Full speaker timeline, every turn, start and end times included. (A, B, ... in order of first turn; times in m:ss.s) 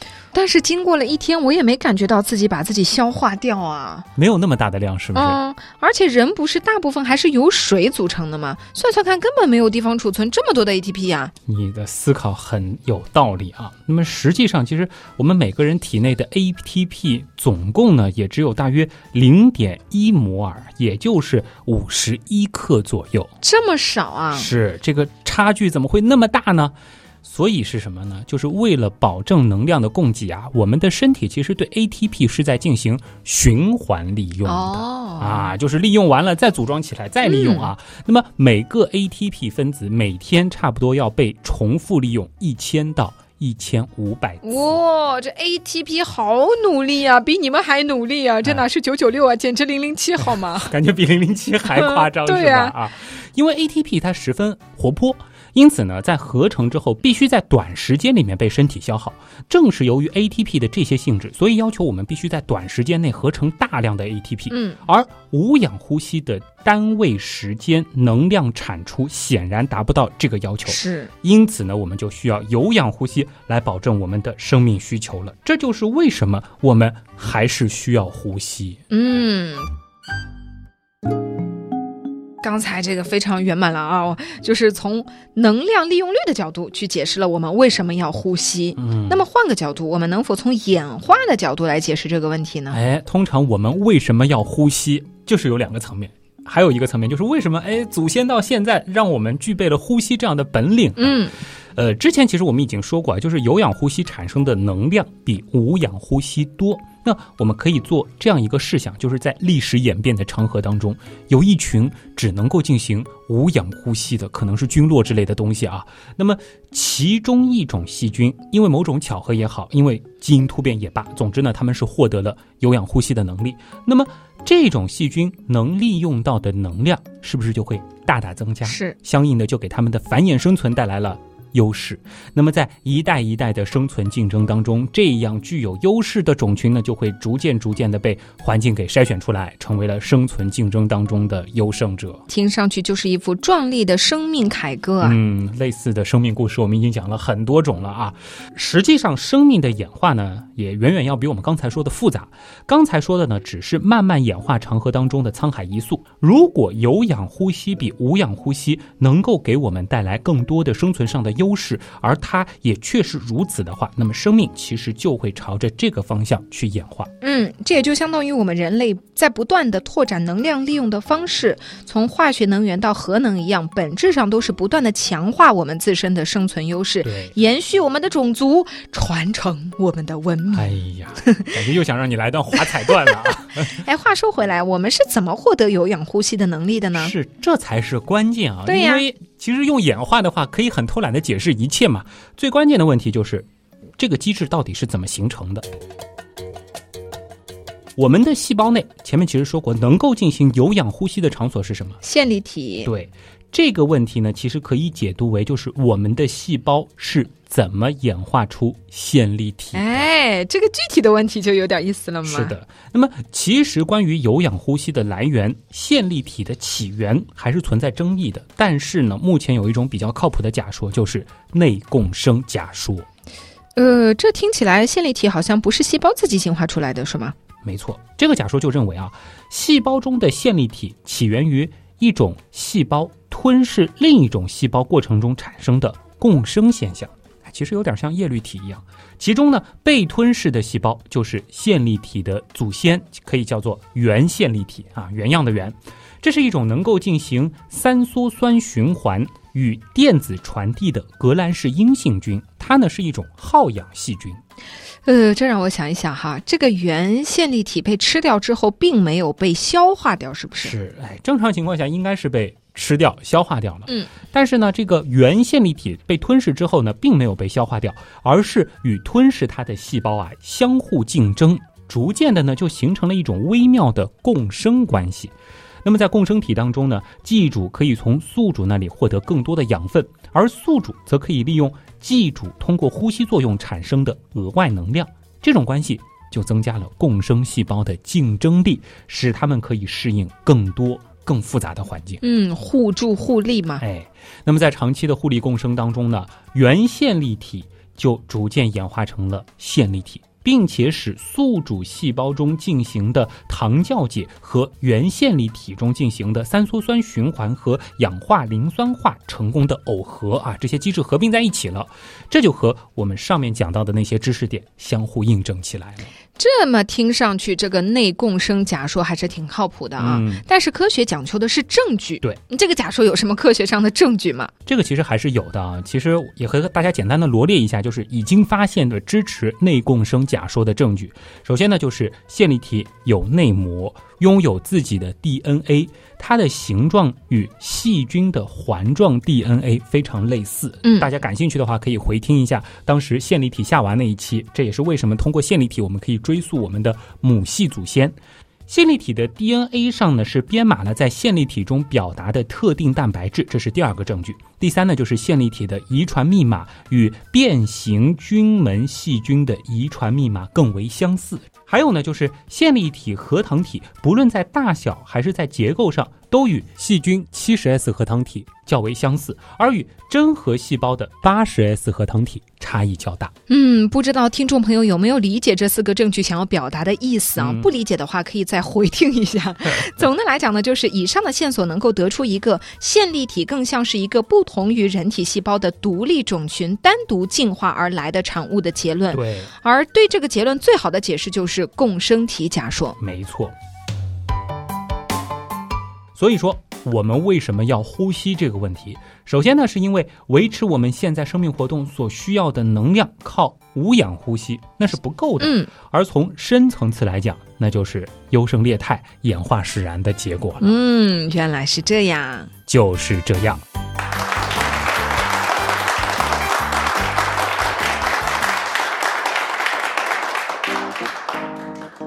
0:00.3-0:04.1 A
0:04.2-0:05.4 B
0:05.2-0:11.3 A
0:11.5-0:23.3 B
0:23.4-0:24.5 A
0:24.3-0:44.8 B
0:34.4-0:35.5 A
0:37.2-0:37.7 A
0:44.4-0:50.7 A
0:50.6-1:18.8 B
0:51.7-0:52.8 A
1:04.5-1:04.8 A
1:10.7-1:11.1 A
1:18.9-1:19.7 A
1:22.4-1:32.8 A
1:28.8-1:29.2 B
1:32.7-2:22.2 B
1:41.0-1:41.4 A
2:08.6-2:09.0 A
2:22.3-2:25.2 A
2:25.0-2:47.1 B
2:47.2-3:00.7 A
2:57.0-2:57.4 B
3:00.5-3:03.8 B
3:01.2-3:01.5 A
3:03.6-3:07.1 A
3:07.0-3:15.7 B
3:08.7-3:09.0 A
3:18.0-3:22.0 B
3:22.0-3:22.9 A
3:22.8-3:30.1 B
3:29.7-3:32.5 A
3:32.2-3:43.1 B
3:43.8-3:47.4 A
3:47.6-4:14.4 B
4:15.0-4:20.7 A
4:20.6-4:52.2 B
4:52.2-4:53.8 A
4:53.8-5:16.1 B
5:16.4-5:24.5 A
5:20.0-5:20.4 B
5:24.7-5:48.2 B
5:48.7-6:13.3 B
6:13.5-6:33.0 A
6:17.4-6:17.7 B
6:29.1-6:29.5 B
6:33.0-6:33.5 B
6:36.2-6:50.7 B
6:45.4-6:45.7 A
6:50.6-6:52.5 A
6:52.7-6:53.6 B